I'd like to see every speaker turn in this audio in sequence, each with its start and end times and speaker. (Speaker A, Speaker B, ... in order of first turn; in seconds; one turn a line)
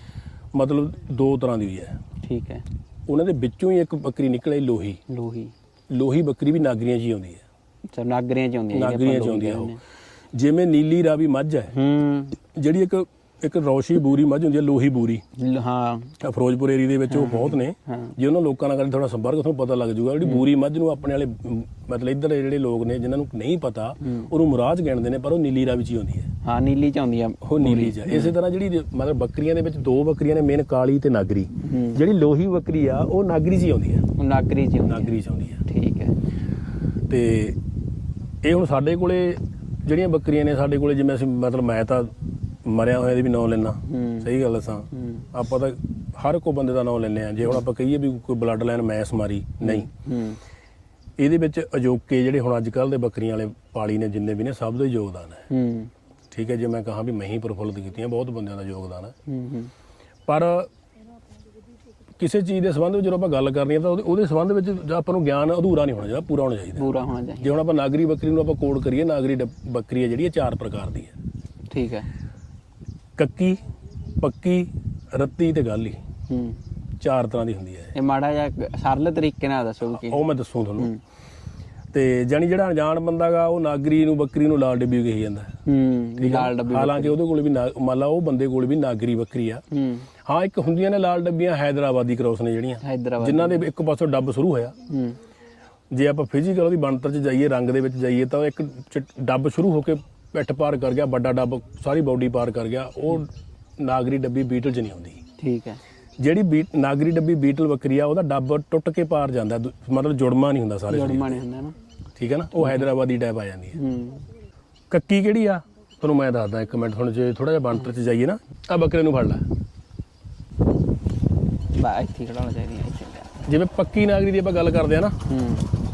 Speaker A: 0.5-1.9
Speaker B: 2.2-2.7
Speaker A: 3.1-5.0
Speaker B: 5.1-5.5
Speaker A: 5.9-7.4
Speaker B: 7.9-9.8
Speaker A: 8.7-9.8
Speaker A: 10.3-11.7
Speaker B: 11.7-12.4
Speaker A: 12.5-15.2
Speaker B: 15.3-16.2
Speaker A: 16.2-26.3
Speaker B: 17.1-18.1
Speaker B: 24.0-24.3
Speaker B: 26.4-28.4
Speaker A: 27.4-34.1
Speaker B: 31.6-32.0
Speaker B: 34.1-36.1
Speaker A: 34.9-35.6
Speaker A: 37.1-37.6
Speaker A: 38.4-42.1
Speaker A: 42.7-49.9
Speaker B: 43.9-44.3
Speaker B: 44.9-45.3
Speaker B: 49.6-50.4
Speaker A: 51.2-55.5
Speaker B: 55.5-55.9
Speaker A: 56.3-59.1
Speaker B: 59.3-59.7
Speaker A: 60.3-60.7
Speaker A: 62.2-66.9
Speaker B: 66.8-67.5
Speaker A: 67.4-71.1
Speaker B: 71.7-72.1
Speaker A: 73.2-73.6
Speaker A: 74.2-76.0
Speaker B: 76.3-76.6
Speaker A: 77.0-77.9
Speaker B: 78.0-80.2
Speaker A: 79.9-80.9
Speaker A: 81.9-85.5
Speaker B: 85.7-87.2
Speaker A: 86.2-89.6
Speaker B: 89.7-90.1
Speaker A: 90.2-94.7
Speaker B: 92.8-93.7
Speaker B: 94.9-95.2
Speaker A: 95.9-105.2
Speaker B: 105.4-105.8
Speaker A: 106.2-111.4
Speaker B: 110.9-111.8
Speaker A: 112.2-113.8
Speaker B: 112.5-112.9
Speaker B: 113.8-114.3
Speaker A: 114.9-119.4
Speaker B: 121.8-123.3
Speaker A: 123.4-125.2
Speaker B: 125.3-125.7